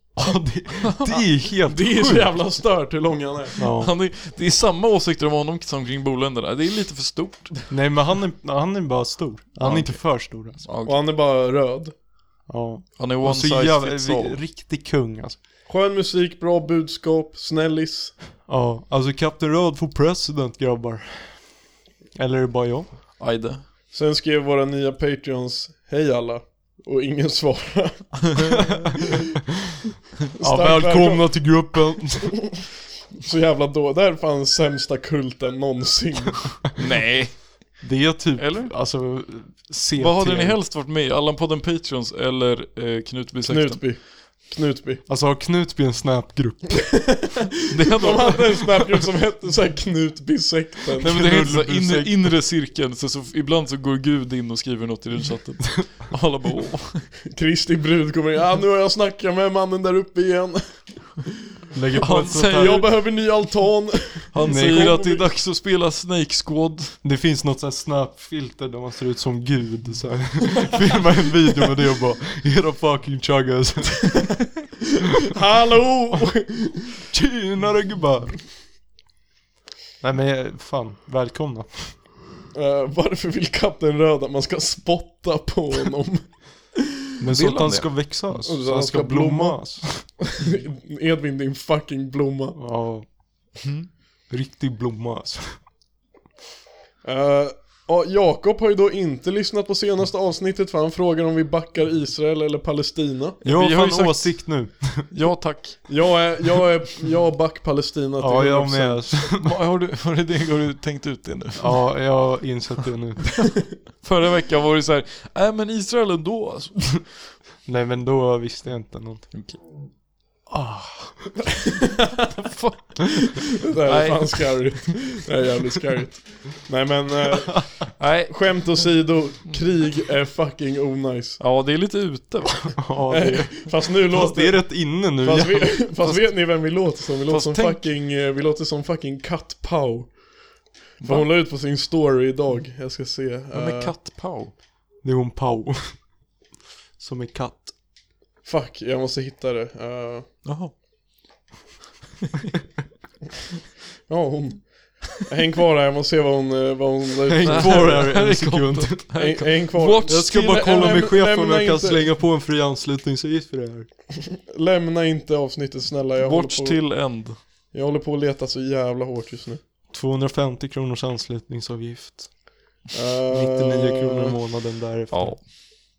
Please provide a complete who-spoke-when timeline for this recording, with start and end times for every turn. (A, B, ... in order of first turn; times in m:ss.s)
0:00.2-0:02.5 A
0:01.6-0:03.6 B
0:03.6-0:03.9 A
0:03.8-0:07.6 C
0:07.7-0:10.6 A
0:09.6-0:11.0 C
0:10.8-0:11.9 B
0:12.5-0:15.4 A
0:13.0-0:14.4 C
0:15.7-0:18.1 B
0:18.5-0:22.9 A
0:23.2-0:23.6 C
0:23.9-0:28.6 B
0:30.4-0:31.8 B
0:30.4-0:32.5 A
0:33.2-0:36.7 B
0:36.8-0:37.8 C
0:37.8-0:40.6 A
0:38.4-0:38.7 C
0:40.0-0:43.8 C
0:43.4-0:45.0 B
0:45.1-0:47.2 A
0:47.7-0:48.6 C
0:47.9-0:51.2 B
0:51.0-0:52.4 A
0:51.0-0:57.0 C
0:57.3-1:01.3 B
1:01.7-1:02.8 A
1:02.0-1:02.9 C
1:02.5-1:05.2 B
1:04.3-1:07.0 C
1:04.4-1:05.0 A
1:07.0-1:14.4 A
1:15.3-1:16.9 B
1:17.1-1:18.4 A
1:20.0-1:22.0 A
1:22.5-1:26.7 B
1:27.2-1:30.3 A
1:27.3-1:27.9 C
1:28.4-1:32.6 B
1:32.6-1:33.1 A
1:33.6-1:33.9 C
1:34.3-1:35.6 A
1:37.0-1:43.4 B
1:43.4-1:45.1 A
1:43.4-1:46.0 C
1:45.9-1:49.2 B
1:48.2-1:49.5 A
1:49.4-1:52.0 C
1:51.6-1:53.4 A
1:54.0-1:57.2 C
1:57.6-1:59.3 A
1:59.3-1:59.6 C
2:00.5-2:01.3 A
2:02.3-2:04.6 C
2:03.6-2:11.4 B
2:08.0-2:08.6 C
2:11.4-2:12.8 C
2:12.8-2:15.9 A
2:13.1-2:20.5 B
2:16.0-2:17.8 C
2:21.0-2:24.0 B
2:21.0-2:21.3 C
2:23.5-2:24.5 C
2:25.0-2:26.0 A
2:27.0-2:27.7 A
2:28.4-2:30.3 B
2:30.4-2:30.7 C
2:34.1-2:38.3 B
2:37.3-2:43.9 A
2:37.4-2:40.9 C
2:39.2-2:42.1 B
2:44.4-2:46.8 B
2:46.2-2:47.4 C
2:47.7-2:49.6 B
2:49.9-2:52.4 A
2:52.9-2:54.4 B
2:53.3-2:55.4 A
2:55.1-2:55.4 C